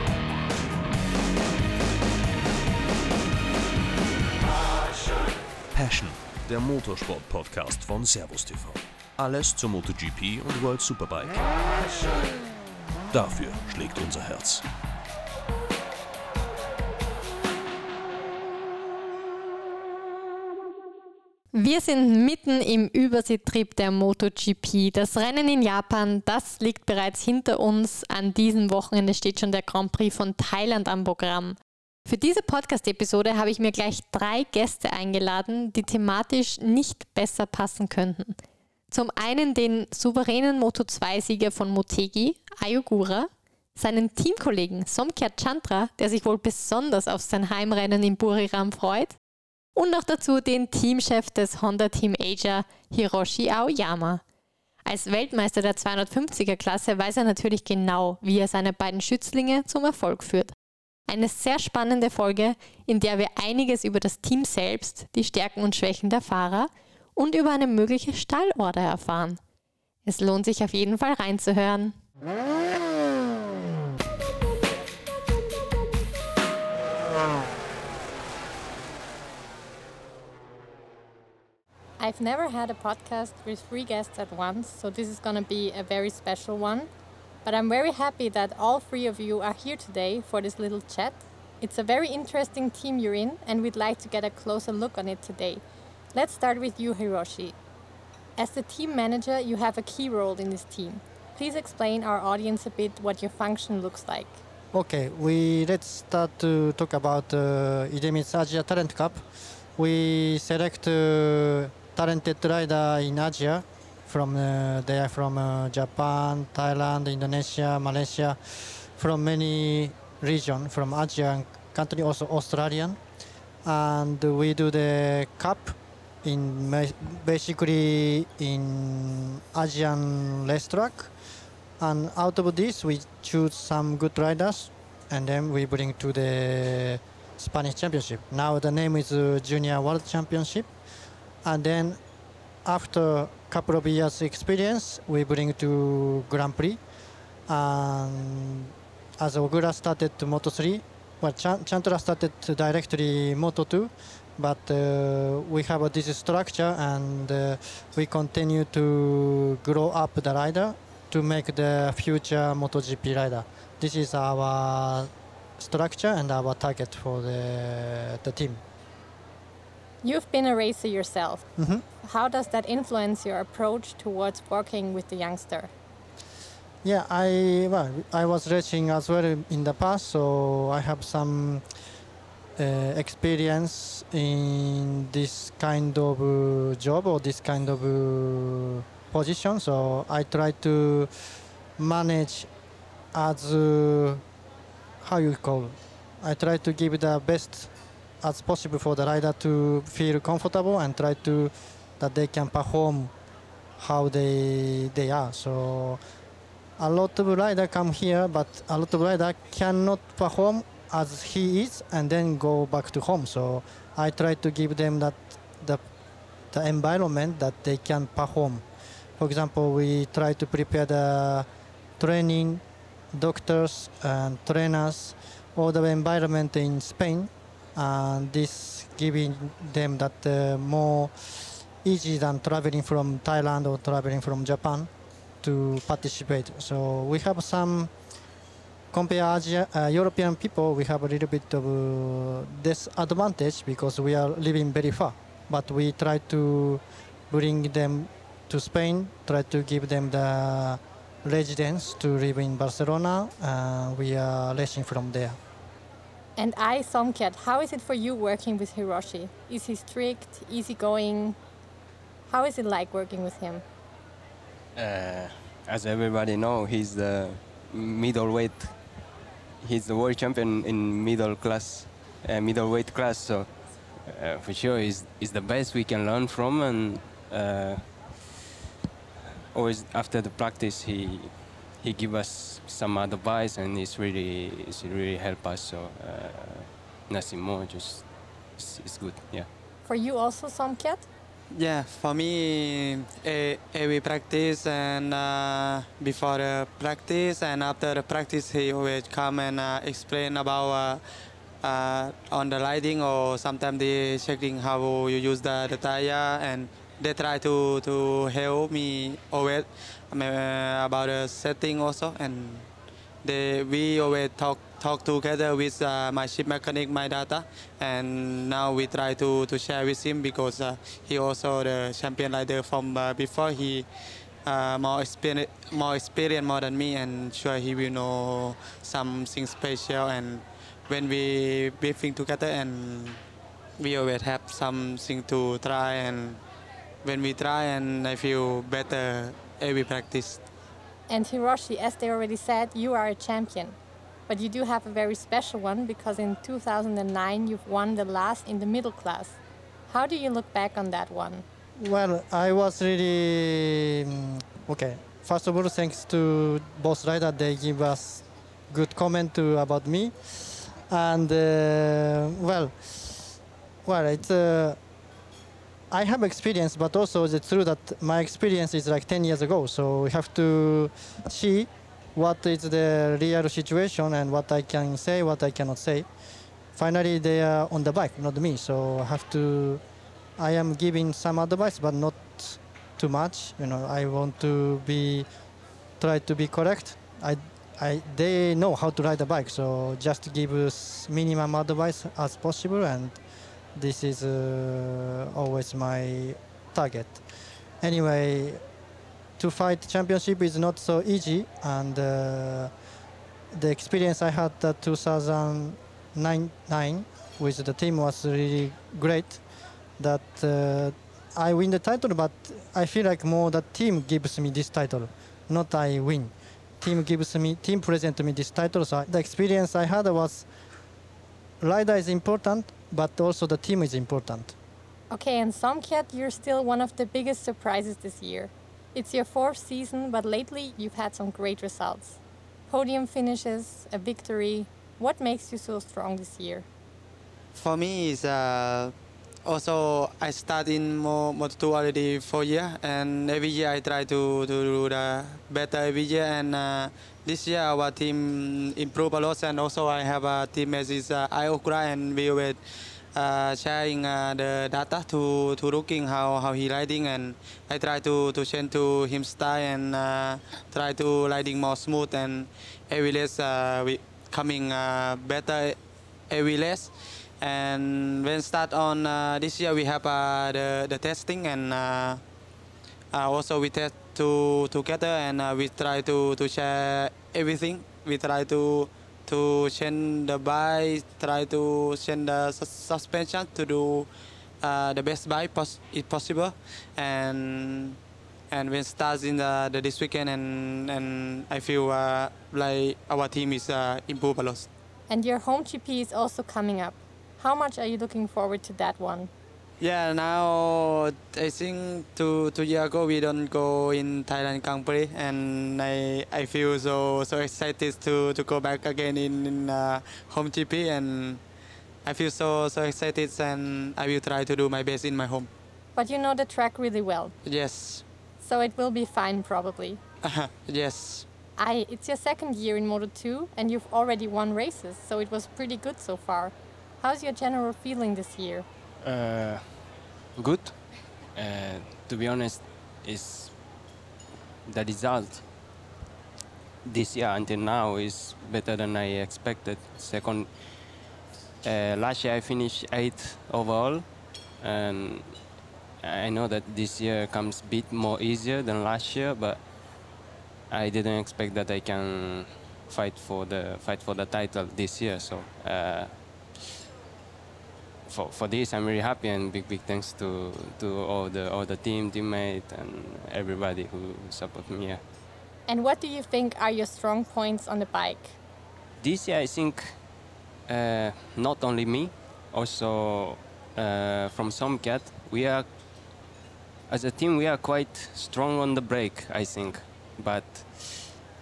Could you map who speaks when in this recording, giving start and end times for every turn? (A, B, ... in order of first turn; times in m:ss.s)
0:05.7-0:11.7 A
0:13.1-0:14.6 A
0:21.5-0:38.4 B
0:38.9-0:49.2 B
0:49.7-0:54.2 B
0:54.8-1:00.5 B
1:01.1-1:09.4 B
1:10.0-1:12.0 B
1:22.0-1:26.9 B
1:27.4-1:35.6 B
1:36.1-1:37.6 B
1:38.4-1:44.4 B
1:44.7-1:49.2 C
1:49.8-2:03.0 C
2:03.6-2:11.1 C
2:11.8-2:20.7 C
2:21.4-2:22.0 C
2:22.6-2:26.8 C
2:27.5-2:48.6 C
2:50.0-2:51.4 B
2:51.6-2:51.8 C
2:52.0-2:55.7 B
2:56.8-3:01.6 C
3:02.6-3:11.1 C
3:11.8-3:12.5 C
3:13.1-3:14.2 C
3:15.0-3:17.7 C
3:18.2-3:23.1 C
3:23.8-3:26.0 C
3:26.8-3:35.8 C
3:36.5-3:38.6 C
3:39.2-3:41.5 C
3:42.0-3:42.6 C
3:43.1-3:51.1 C
3:51.8-3:54.9 C
3:55.4-3:57.9 C
3:58.9-4:15.4 C
4:16.4-4:21.4 B
4:22.2-4:23.6 B
4:24.8-4:28.8 D
4:29.6-4:33.5 D
4:34.0-4:37.9 D
4:39.5-4:49.5 D
4:49.8-4:51.1 B
4:51.5-5:01.0 E
5:01.6-5:12.7 E
5:13.2-5:23.8 E
5:24.4-5:33.2 E
5:33.8-5:36.4 E
5:37.0-5:40.4 E
5:41.1-5:43.8 B
5:44.3-5:51.4 B
5:51.8-6:03.3 C
6:03.8-6:04.8 C
6:05.9-6:16.1 C
6:16.7-6:19.8 C
6:20.4-6:25.3 C
6:26.0-6:33.2 C
6:33.8-6:37.2 C
6:37.8-6:38.6 C
6:39.4-6:42.7 C
6:43.5-6:49.4 C
6:50.0-7:00.5 C
7:01.6-7:04.5 C
7:05.1-7:16.6 B
7:17.5-7:18.9 E
7:19.4-7:32.6 E
7:33.2-7:45.8 E
7:46.3-7:52.2 E
7:53.1-8:04.1 E
8:04.6-8:08.0 E
8:08.5-8:14.7 E
8:15.1-8:19.3 B
8:19.8-8:31.4 E
8:32.0-8:35.5 E
8:35.9-8:37.3 B
8:37.4-8:38.0 E
8:38.4-8:40.0 B
8:40.2-8:41.2 E
8:41.6-8:48.6 B
8:49.0-8:49.8 D
8:50.4-8:50.8 D
8:51.3-8:53.5 D
8:54.6-8:55.4 D
8:56.8-9:00.6 D
9:01.6-9:04.1 D
9:04.6-9:05.4 D
9:06.0-9:09.6 D
9:10.7-9:16.1 D
9:18.0-9:25.0 D
9:25.7-9:28.4 B
9:29.0-9:30.0 D
9:30.7-9:35.7 D
9:36.9-9:41.1 D